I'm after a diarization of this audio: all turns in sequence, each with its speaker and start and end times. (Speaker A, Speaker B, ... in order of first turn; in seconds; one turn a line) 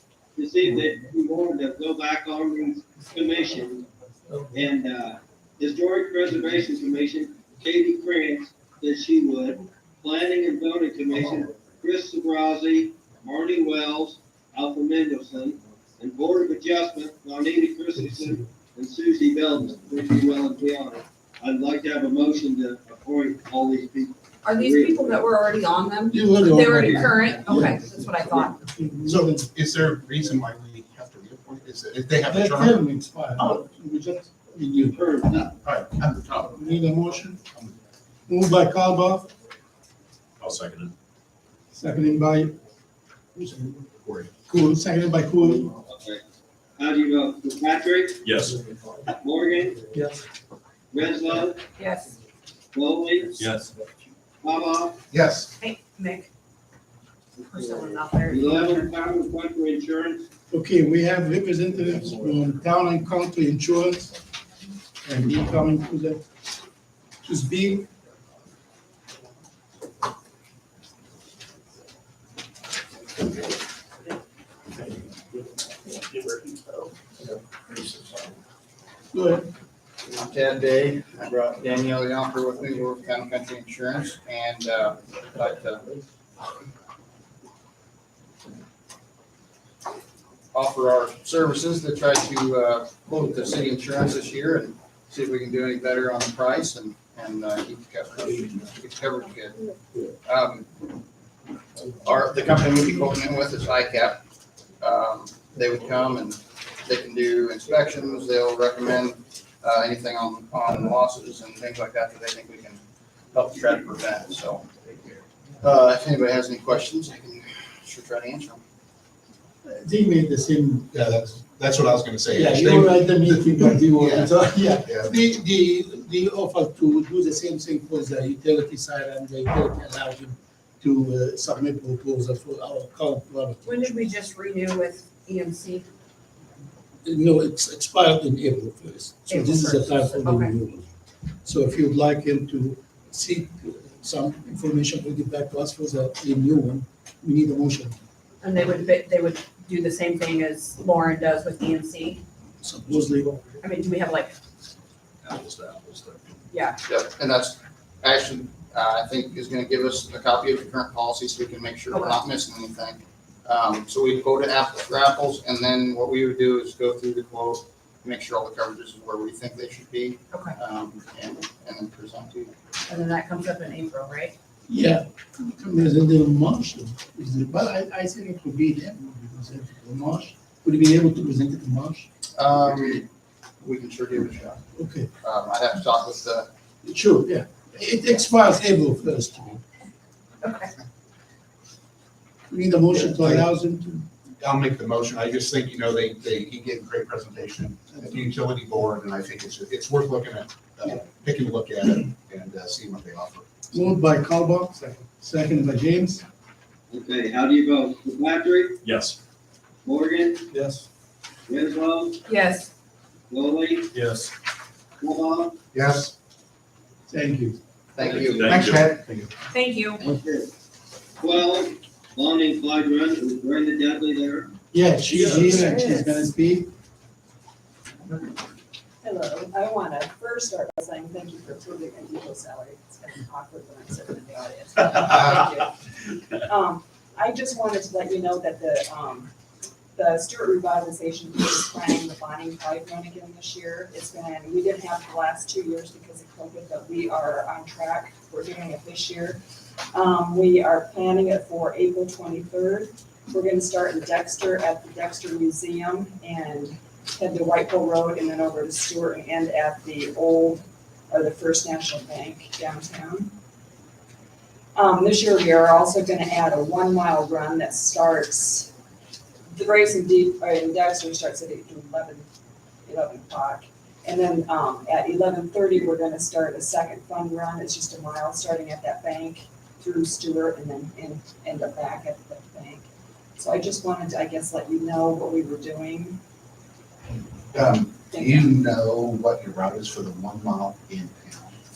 Speaker A: 0.3-3.8
Speaker A: 4.5-25.3
Speaker B: 18.2-18.4
Speaker C: 24.4-28.6
Speaker B: 26.1-29.4
Speaker A: 26.4-27.1
Speaker D: 29.1-32.8
Speaker B: 32.2-35.0
Speaker A: 34.9-35.5
Speaker D: 35.3-36.7
Speaker B: 36.5-37.4
Speaker B: 38.3-39.3
Speaker E: 40.4-40.9
Speaker B: 41.7-42.6
Speaker D: 43.4-44.3
Speaker B: 44.5-45.7
Speaker A: 45.9-46.2
Speaker A: 46.8-48.2
Speaker E: 48.2-48.6
Speaker A: 49.2-49.8
Speaker B: 49.9-50.2
Speaker A: 50.9-51.6
Speaker C: 51.8-52.2
Speaker A: 52.7-53.4
Speaker E: 53.4-53.7
Speaker A: 54.4-55.0
Speaker D: 55.1-55.5
Speaker C: 55.6-56.3
Speaker C: 57.4-58.9
Speaker A: 57.5-60.2
Speaker B: 60.5-64.1
Speaker B: 65.0-66.2
Speaker B: 67.2-67.9
Speaker B: 79.1-79.5
Speaker F: 80.0-85.9
Speaker F: 90.5-99.6
Speaker F: 100.2-100.7
Speaker F: 101.9-104.2
Speaker F: 104.8-114.7
Speaker F: 115.6-118.6
Speaker B: 119.6-121.2
Speaker D: 120.9-125.1
Speaker B: 122.3-133.9
Speaker C: 133.6-135.9
Speaker B: 137.1-140.9
Speaker C: 139.3-140.6
Speaker B: 141.4-148.0
Speaker C: 148.4-152.2
Speaker B: 152.6-153.4
Speaker C: 153.6-154.3
Speaker E: 155.2-156.3
Speaker C: 156.5-156.8
Speaker F: 156.9-172.5
Speaker C: 161.9-162.2
Speaker C: 172.9-174.3
Speaker B: 174.7-182.1
Speaker F: 182.4-183.1
Speaker F: 183.6-184.6
Speaker B: 184.8-185.1
Speaker F: 185.2-186.5
Speaker B: 186.8-189.6
Speaker C: 190.4-190.7
Speaker B: 192.5-194.1
Speaker D: 193.2-193.5
Speaker D: 194.4-203.5
Speaker B: 203.7-206.2
Speaker A: 206.9-208.8
Speaker E: 208.8-209.2
Speaker A: 209.8-210.4
Speaker B: 210.5-210.9
Speaker A: 211.5-212.2
Speaker C: 212.3-212.7
Speaker A: 213.3-213.9
Speaker E: 213.9-214.3
Speaker A: 215.0-215.6
Speaker D: 215.7-216.1
Speaker B: 217.1-217.6
Speaker F: 218.0-218.6
Speaker E: 218.1-218.9
Speaker D: 218.4-219.3
Speaker C: 219.5-220.0
Speaker A: 220.0-220.5
Speaker A: 221.2-224.5
Speaker B: 224.7-226.7
Speaker E: 225.1-225.7
Speaker C: 225.6-226.1
Speaker G: 229.0-235.8
Speaker G: 236.4-239.3
Speaker G: 239.9-249.4
Speaker G: 249.9-263.4
Speaker G: 264.8-268.7
Speaker G: 269.5-272.2
Speaker G: 272.9-286.2
Speaker D: 287.5-291.6
Speaker G: 288.1-288.6